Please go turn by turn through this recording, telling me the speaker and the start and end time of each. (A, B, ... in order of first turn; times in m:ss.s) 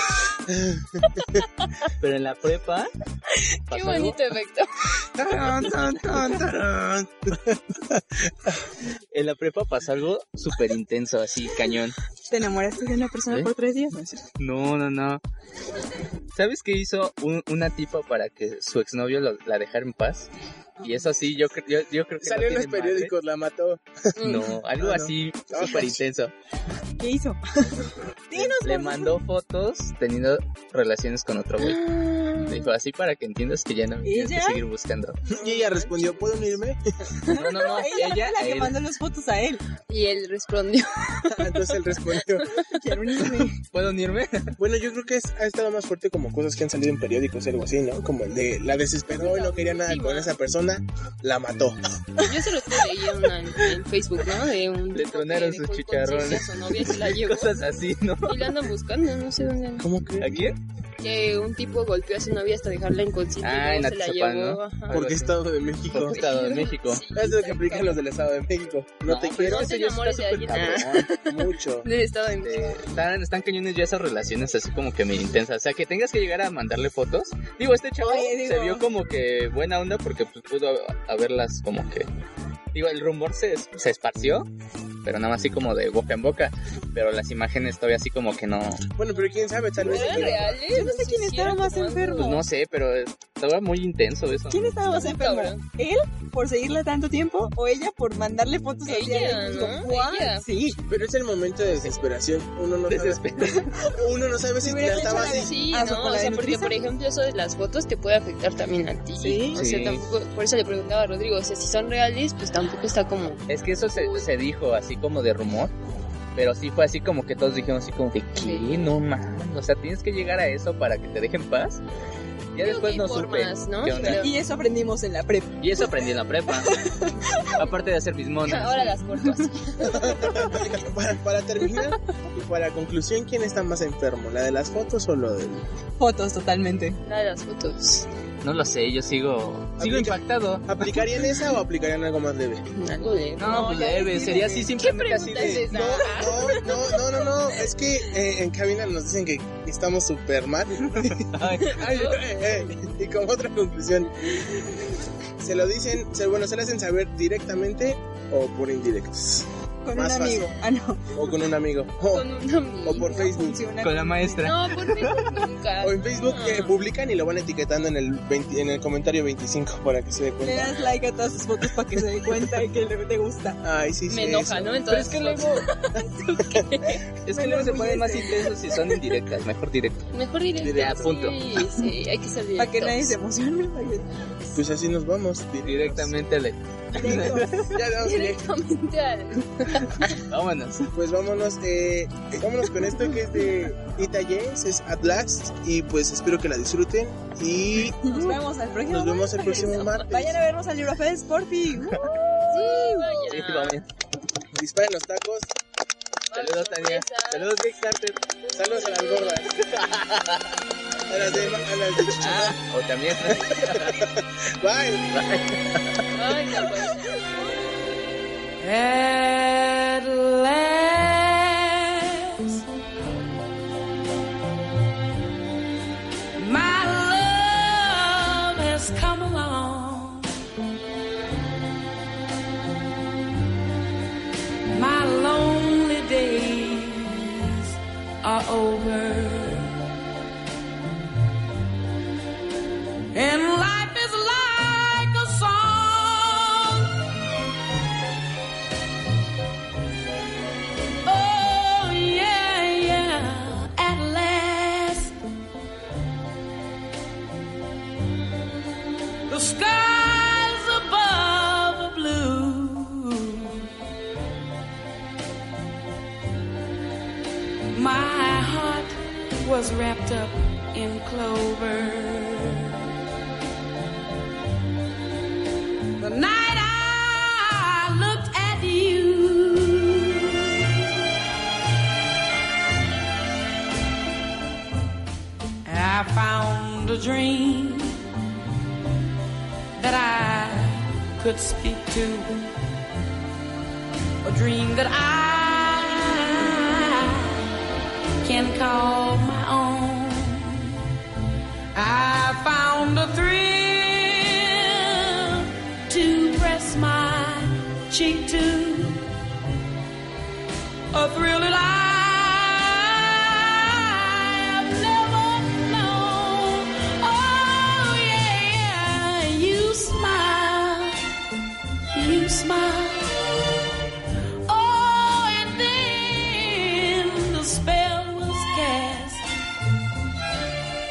0:00.5-0:01.4 A
0:02.0-0:02.9 B
0:03.7-0:04.2 B
0:03.7-0:04.7 C
0:05.2-0:08.5 A
0:09.1-0:12.0 B
0:12.3-0:14.2 D
0:14.4-0:15.2 B
0:16.3-0:20.3 B
0:20.8-0:21.1 D
0:20.8-0:23.1 B
0:22.2-0:24.1 A
0:24.2-0:24.6 C
0:24.2-0:26.3 B
0:24.8-0:26.0 A
0:27.0-0:29.2 D
0:28.3-0:31.8 B
0:31.6-0:32.7 C
0:32.5-0:35.2 B
0:34.0-0:34.6 D
0:35.3-0:36.5 C
0:35.3-0:36.8 A
0:37.3-0:39.6 D
0:37.3-0:38.8 B
0:39.9-0:41.6 C
0:41.3-0:42.5 A
0:42.5-0:43.6 D
0:43.6-0:44.6 B
0:44.6-0:51.8 A
0:49.1-0:50.3 C
0:52.2-0:57.6 C
0:54.9-0:58.5 B
0:58.2-0:59.9 C
0:59.8-1:00.5 A
1:00.2-1:00.6 B
1:01.0-1:05.1 C
1:03.4-1:05.4 B
1:04.9-1:06.2 A
1:05.9-1:07.0 B
1:05.9-1:08.0 C
1:07.1-1:09.7 A
1:09.0-1:11.2 B
1:09.3-1:12.8 C
1:11.2-1:11.9 A
1:12.4-1:22.1 B
1:18.0-1:18.9 D
1:22.7-1:24.5 B
1:25.0-1:28.8 B
1:29.0-1:30.6 A
1:29.8-1:32.4 C
1:30.7-1:32.4 D
1:32.2-1:34.7 B
1:34.5-1:40.8 D
1:34.8-1:35.6 C
1:38.8-1:40.4 C
1:40.9-1:45.5 A
1:42.9-1:43.7 B
1:44.6-1:46.7 D
1:44.9-1:54.3 C
1:49.2-1:49.6 D
1:49.5-1:50.0 B
1:53.5-1:55.7 B
1:56.4-2:01.8 B
1:58.4-1:58.7 C
2:02.5-2:04.2 B
2:02.6-2:04.3 C
2:04.0-2:05.9 D
2:05.6-2:06.8 B
2:06.7-2:07.6 D
2:07.5-2:09.0 B
2:08.4-2:10.7 C
2:09.9-2:15.6 A
2:16.0-2:17.0 D
2:17.0-2:18.0 C
2:18.4-2:21.1 B
2:19.8-2:22.7 A
2:22.8-2:27.3 C
2:23.4-2:26.0 B
2:23.4-2:24.7 D
2:25.4-2:34.4 A
2:25.7-2:26.5 D
2:31.2-2:31.8 B
2:31.7-2:32.2 C
2:35.4-2:40.5 A
2:39.8-2:41.0 D
2:41.1-2:42.2 A
2:42.1-2:43.2 C
2:42.8-2:43.6 A
2:42.9-2:44.5 D
2:43.8-2:45.5 B
2:44.4-2:46.7 C
2:45.8-2:50.8 A
2:50.4-2:53.6 D
2:53.6-2:55.4 A
2:54.1-2:57.0 C
2:54.9-2:55.6 B
2:57.2-3:00.1 B
2:57.3-2:58.9 D
3:00.1-3:03.2 C
3:00.6-3:01.0 A
3:00.6-3:01.4 B
3:02.6-3:04.0 D
3:04.5-3:06.2 A
3:05.6-3:07.7 B
3:06.9-3:07.7 D
3:07.7-3:08.5 A
3:08.0-3:10.2 C
3:10.2-3:10.9 B
3:10.9-3:20.4 A
3:18.0-3:22.0 D
3:19.4-3:20.1 C
3:22.0-3:23.8 B
3:22.5-3:23.8 C
3:22.6-3:22.8 D
3:24.5-3:25.5 A
3:26.3-3:27.5 C
3:26.3-3:28.2 B
3:28.5-3:29.4 C
3:28.5-3:29.6 A
3:29.6-3:30.6 B
3:31.1-3:32.6 A
3:31.1-3:34.1 B
3:33.3-3:35.2 A
3:35.1-3:35.6 B
3:36.1-3:37.1 C
3:38.6-3:42.6 E
3:46.4-3:50.3 E
3:54.7-3:59.7 E
4:03.1-4:06.9 E
4:11.0-4:15.2 E
4:19.3-4:23.7 E
4:27.7-4:32.9 E
4:36.0-4:40.5 E
4:45.6-4:48.0 E
4:49.8-4:52.4 E
4:54.2-4:57.6 E
4:58.2-5:00.8 E
5:01.7-5:09.1 E
5:10.9-5:21.0 E
5:21.9-5:23.2 E
5:24.5-5:29.2 E